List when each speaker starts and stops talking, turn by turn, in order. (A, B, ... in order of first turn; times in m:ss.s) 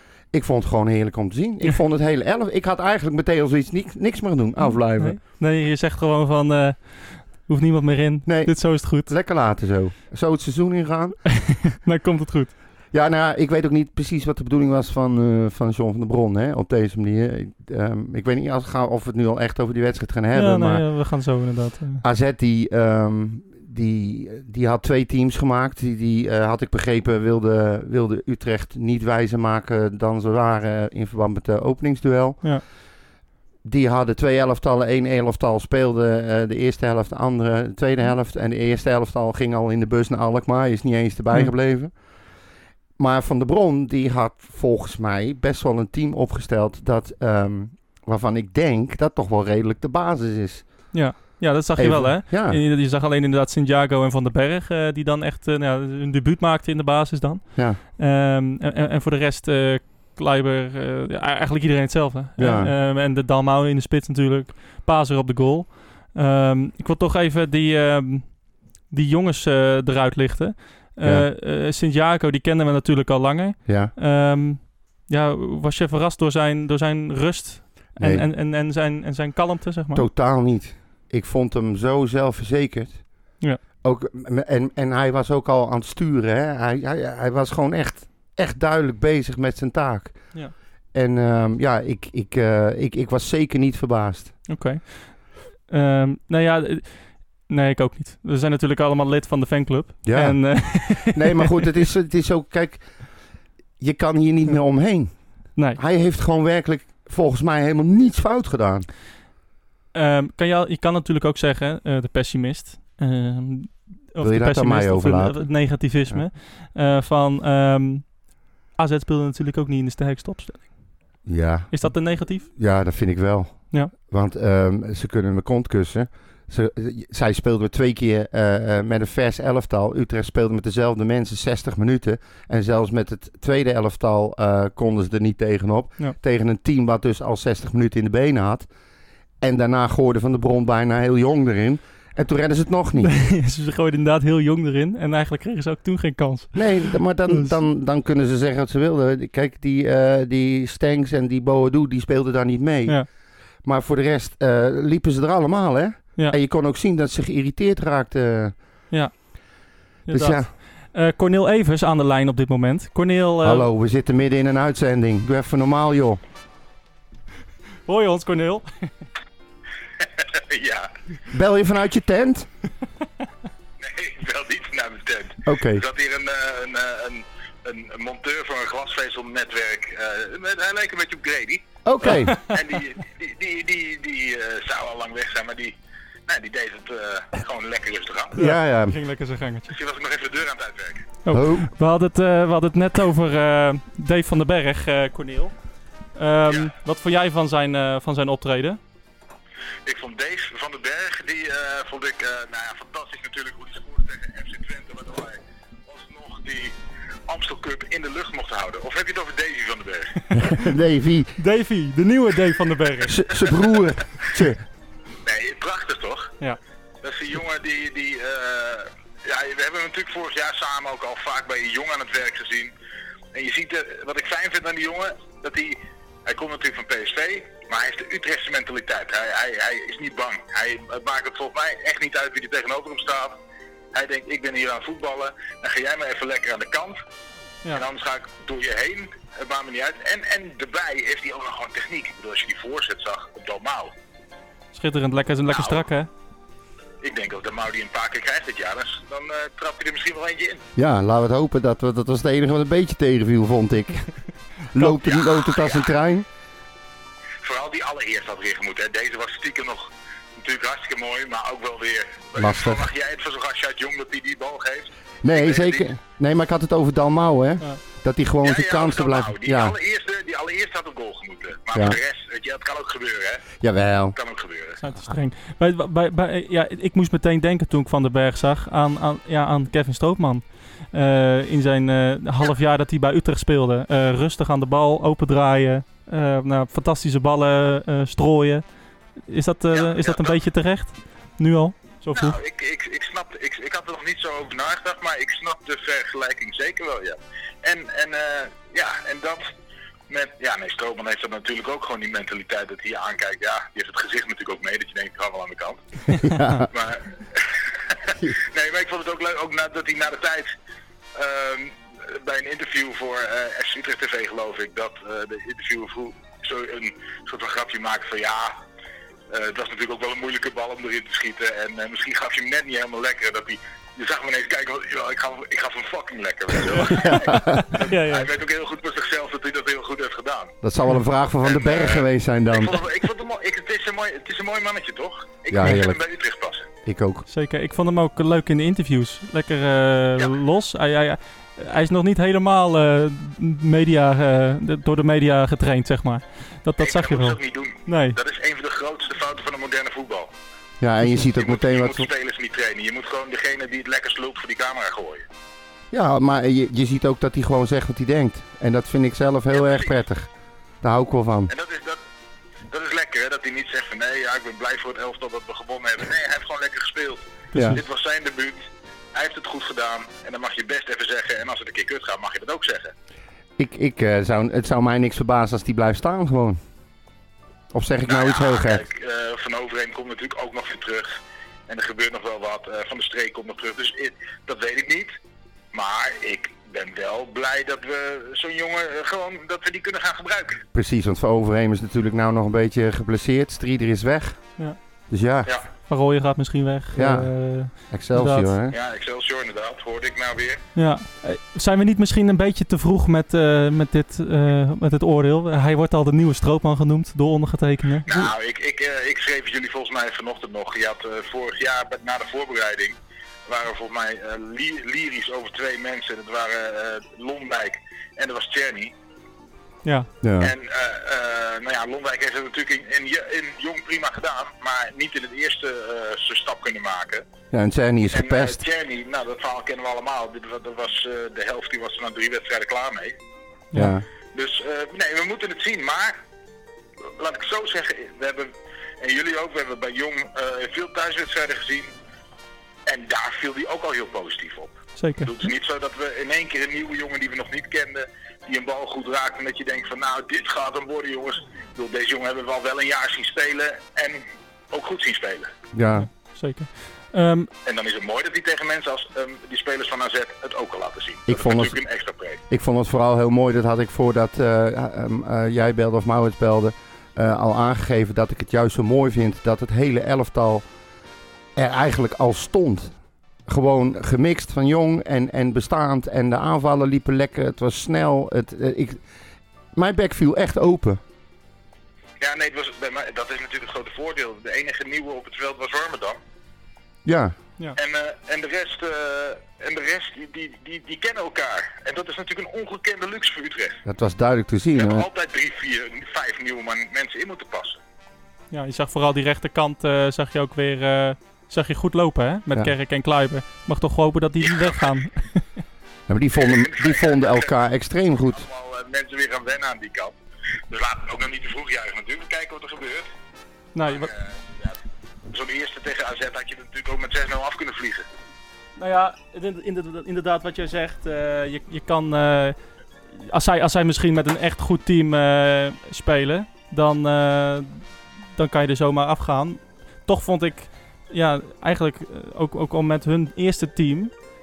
0:00.3-0:05.2 A
0:04.6-0:09.1 B
0:08.3-0:11.2 A
0:11.3-0:12.6 B
0:12.9-0:20.9 A
0:20.4-0:22.0 B
0:22.0-0:32.6 A
0:33.6-0:41.9 A
0:43.0-0:50.9 A
0:50.9-1:20.1 B
0:51.8-0:52.6 A
1:02.4-1:02.7 A
1:13.7-1:13.9 A
1:18.0-1:18.3 A
1:19.9-1:23.0 A
1:23.8-1:30.3 A
1:30.9-1:34.4 A
1:34.5-1:41.6 B
1:40.0-1:43.0 A
1:43.8-1:45.1 A
1:45.8-1:48.9 A
1:49.9-2:00.8 B
1:54.2-1:56.2 A
2:01.2-2:18.7 A
2:01.7-2:02.5 B
2:19.4-2:23.1 A
2:23.0-2:27.6 B
2:26.6-2:33.1 A
2:33.6-2:38.6 A
2:38.9-2:39.2 B
2:40.1-2:43.7 B
2:40.1-2:40.5 A
2:43.4-2:46.2 A
2:47.9-2:48.9 B
2:50.0-2:50.9 C
2:51.3-2:52.5 A
2:53.8-3:05.8 C
2:55.4-2:55.8 A
3:01.8-3:02.4 A
3:06.3-3:08.4 C
3:08.4-3:09.0 A
3:08.4-3:09.7 B
3:09.7-3:11.1 C
3:11.2-3:15.5 B
3:11.3-3:11.7 A
3:16.2-3:18.8 B
3:19.8-3:26.8 C
3:27.3-3:30.3 C
3:30.4-3:31.4 A
3:31.4-3:33.2 B
3:33.0-3:34.6 A
3:35.2-3:36.3 C
3:37.0-3:42.7 C
3:43.3-3:53.4 C
3:53.9-3:57.0 C
3:57.7-4:03.9 C
4:04.7-4:06.1 B
4:05.5-4:05.8 C
4:07.0-4:10.7 C
4:10.8-4:14.1 A
4:14.7-4:16.3 A
4:15.0-4:15.9 C
4:17.4-4:25.9 C
4:22.4-4:22.9 A
4:25.2-4:29.8 A
4:28.4-4:33.5 C
4:31.7-4:32.0 A
4:33.6-4:34.2 A
4:34.2-4:34.8 C
4:34.8-4:48.6 B
4:49.3-4:52.4 B
4:49.7-4:50.4 C
4:52.1-4:59.5 C
5:00.1-5:05.8 C
5:06.2-5:06.6 B
5:06.2-5:06.7 A
5:06.7-5:10.5 C
5:11.2-5:18.6 C
5:19.3-5:30.6 C
5:26.7-5:28.3 B
5:26.9-5:27.7 A
5:30.6-5:32.8 A
5:31.4-5:36.7 C
5:35.5-5:36.0 A
5:36.8-5:37.2 A
5:37.3-5:48.2 B
5:46.8-5:50.3 C
5:50.8-5:52.1 A
5:51.2-5:55.3 C
5:55.9-6:00.3 A
5:59.5-5:59.9 C
6:00.8-6:01.5 A
6:01.5-6:02.0 C
6:02.7-6:08.6 C
6:07.5-6:07.8 B
6:09.1-6:12.9 C
6:13.6-6:16.6 A
6:17.7-6:18.8 A
6:18.1-6:25.2 C
6:25.7-6:30.6 C
6:30.7-6:34.4 A
6:35.1-6:35.5 A
6:35.9-6:38.5 B
6:37.0-6:38.8 A
6:38.7-6:40.6 C
6:40.8-6:48.1 B
6:48.1-6:58.9 C
7:00.2-7:00.5 A
7:00.4-7:07.3 C
7:07.5-7:08.6 A
7:08.1-7:13.2 C
7:13.7-7:14.0 A
7:14.3-7:16.2 C
7:17.2-7:21.9 C
7:22.9-7:35.5 C
7:25.0-7:25.3 B
7:35.7-7:36.1 A
7:36.0-7:37.5 B
7:37.6-7:42.4 C
7:41.3-7:41.8 A
7:42.5-7:50.6 A
7:51.6-7:52.9 A
7:53.5-7:59.0 A
7:59.8-8:01.0 A
8:02.2-8:06.2 C
8:07.0-8:07.4 A
8:07.8-8:13.8 C
8:13.8-8:15.1 A
8:14.8-8:17.8 C
8:18.5-8:25.4 B
8:24.4-8:24.7 C
8:26.1-8:28.4 A
8:26.4-8:27.5 C
8:28.3-8:30.2 C
8:30.7-8:33.1 C
8:33.8-8:34.1 B
8:33.8-8:34.8 C
8:35.3-8:38.1 C
8:38.8-8:42.6 B
8:43.2-8:54.1 B